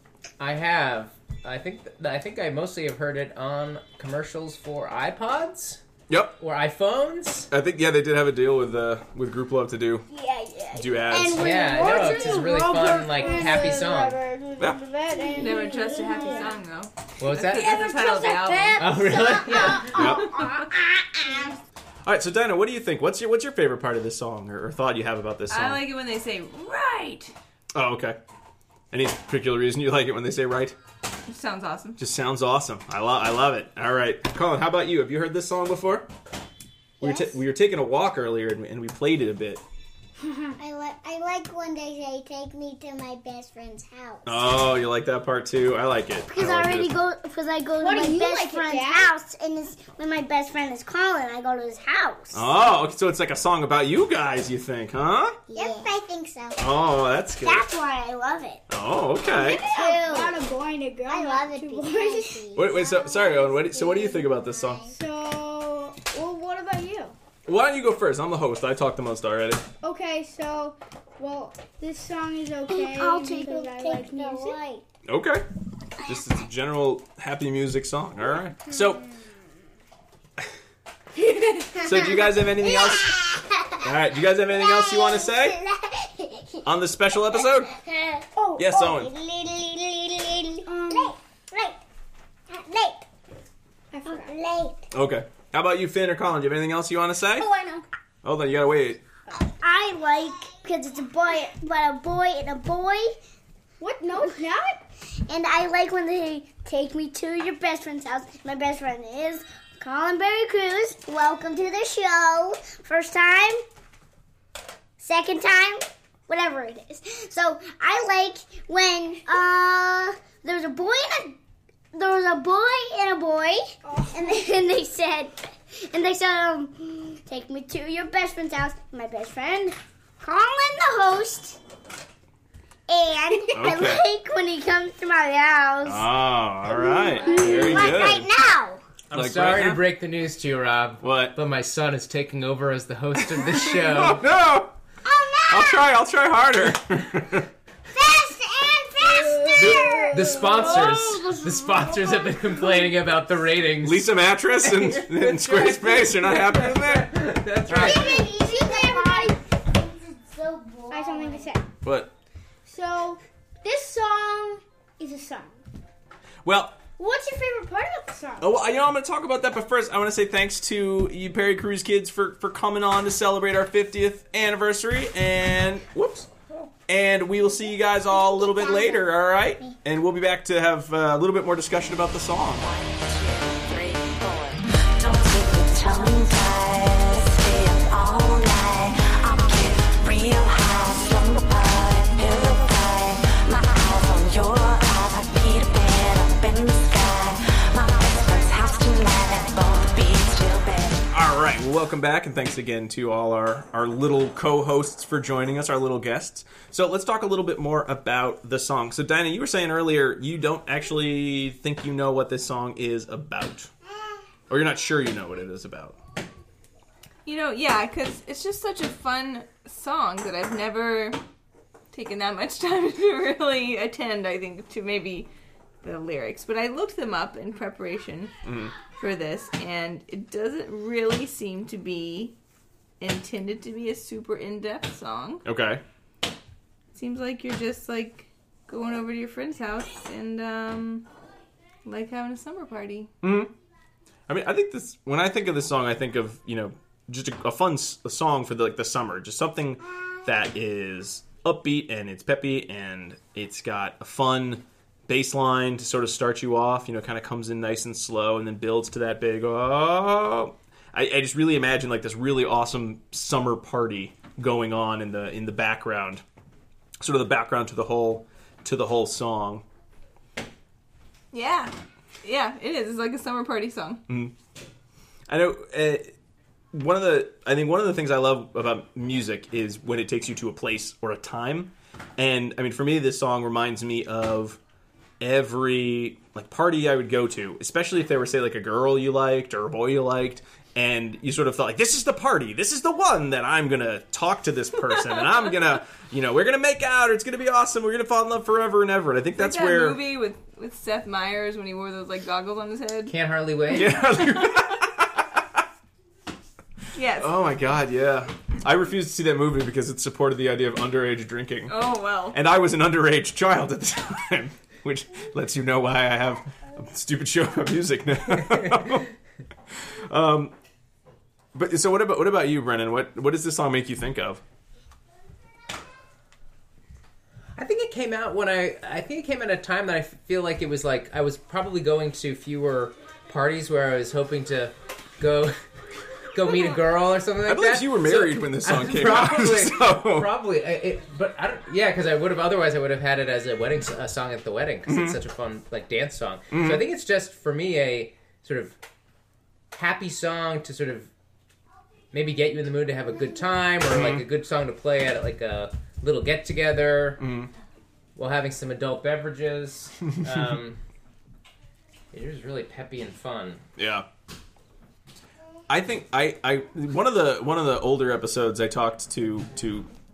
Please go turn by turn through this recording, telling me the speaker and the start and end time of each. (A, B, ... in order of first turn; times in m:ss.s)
0:00.4-0:05.8 A
0:06.1-0:06.4 B
0:06.4-0:07.5 A
0:07.5-0:10.1 B
0:10.1-0:16.6 C
0:10.7-0:11.8 B
0:10.7-0:13.7 D
0:11.4-0:14.2 A
0:15.2-0:16.5 D
0:15.4-0:18.9 E
0:17.2-0:17.8 A
0:17.6-0:21.6 D
0:17.7-0:21.6 C
0:18.8-0:19.9 A
0:19.5-0:19.8 E
0:19.9-0:20.4 B
0:22.0-0:25.8 B
0:25.5-0:27.3 E
0:27.7-0:28.2 B
0:28.9-0:30.8 B
0:31.3-0:32.0 E
0:32.0-0:36.1 B
0:37.0-0:39.6 B
0:40.2-0:40.6 C
0:40.6-0:44.6 D
0:44.3-0:47.0 B
0:46.3-0:52.5 D
0:47.8-0:49.1 C
0:52.3-0:55.4 B
0:55.5-0:56.6 D
0:55.6-0:55.8 C
0:56.6-0:57.6 B
0:57.4-0:58.6 D
0:58.7-0:59.6 B
0:59.2-1:00.5 D
0:59.4-1:03.5 C
1:01.1-1:04.9 D
1:02.6-1:04.9 B
1:04.9-1:07.2 C
1:07.5-1:09.7 B
1:09.8-1:14.6 C
1:12.7-1:14.8 D
1:15.1-1:15.5 B
1:16.0-1:19.0 B
1:21.4-1:21.8 C
1:21.7-1:31.8 D
1:21.8-1:25.6 B
1:26.6-1:27.8 B
1:28.4-1:28.7 C
1:28.6-1:29.1 B
1:30.7-1:31.2 C
1:32.5-1:33.0 D
1:33.9-1:34.3 C
1:34.1-1:34.8 D
1:34.9-1:37.5 B
1:37.4-1:37.9 D
1:38.2-1:39.0 B
1:39.3-1:43.2 D
1:43.8-1:44.8 C
1:44.1-1:44.4 D
1:45.3-1:53.6 D
1:55.0-2:01.4 D
2:01.9-2:11.6 D
2:03.8-2:04.4 C
2:12.9-2:16.1 D
2:13.5-2:14.0 B
2:15.8-2:18.3 B
2:16.6-2:18.8 D
2:17.2-2:18.1 C
2:19.1-2:24.3 A
2:19.1-2:19.8 B
2:21.0-2:21.4 B
2:23.3-2:24.8 B
2:25.0-2:25.9 D
2:25.5-2:27.5 B
2:27.9-2:30.6 D
2:29.0-2:31.4 C
2:29.6-2:38.3 A
2:30.7-2:31.2 B
2:32.1-2:32.6 C
2:33.8-2:37.1 B
2:37.7-2:41.5 D
2:37.7-2:39.4 C
2:40.9-2:41.7 C
2:41.8-2:42.1 B
2:42.7-2:45.6 C
2:46.4-2:46.8 B
2:47.0-2:48.5 C
2:48.4-2:56.3 B
2:56.9-3:02.7 B
2:58.1-2:59.7 D
3:02.6-3:21.1 F
3:21.1-3:33.7 B
3:34.5-3:36.0 B
3:37.3-3:41.2 E
3:41.9-3:45.3 E
3:45.8-3:48.3 E
3:48.4-3:48.7 B
3:48.9-3:52.3 E
3:53.0-3:55.4 E
3:55.4-3:55.8 B
3:56.9-4:01.1 E
4:01.8-4:03.1 E
4:03.2-4:03.5 B
4:04.3-4:26.2 B
4:27.0-4:29.6 B
4:31.3-4:34.0 E
4:34.1-4:34.4 B
4:35.3-4:36.1 B
4:36.7-4:44.6 B
4:45.2-5:00.0 B
4:59.4-5:03.2 E
5:03.1-5:04.0 A
5:03.7-5:05.6 B
5:04.2-5:04.6 E
5:06.9-5:07.4 E
5:07.2-5:11.8 B
5:11.7-5:12.4 E
5:12.3-5:19.1 B
5:19.7-5:20.5 B
5:21.5-5:24.4 B
5:27.6-5:35.6 A
5:36.3-5:48.8 A
5:37.4-5:40.3 B
5:44.9-5:45.2 B
5:46.5-5:46.8 B
5:49.7-5:51.1 A
5:52.1-5:57.2 A
5:53.9-5:54.2 B
5:57.2-5:57.5 B
5:58.2-6:00.8 A
6:02.1-6:03.6 A
6:03.8-6:04.1 B
6:05.7-6:09.9 B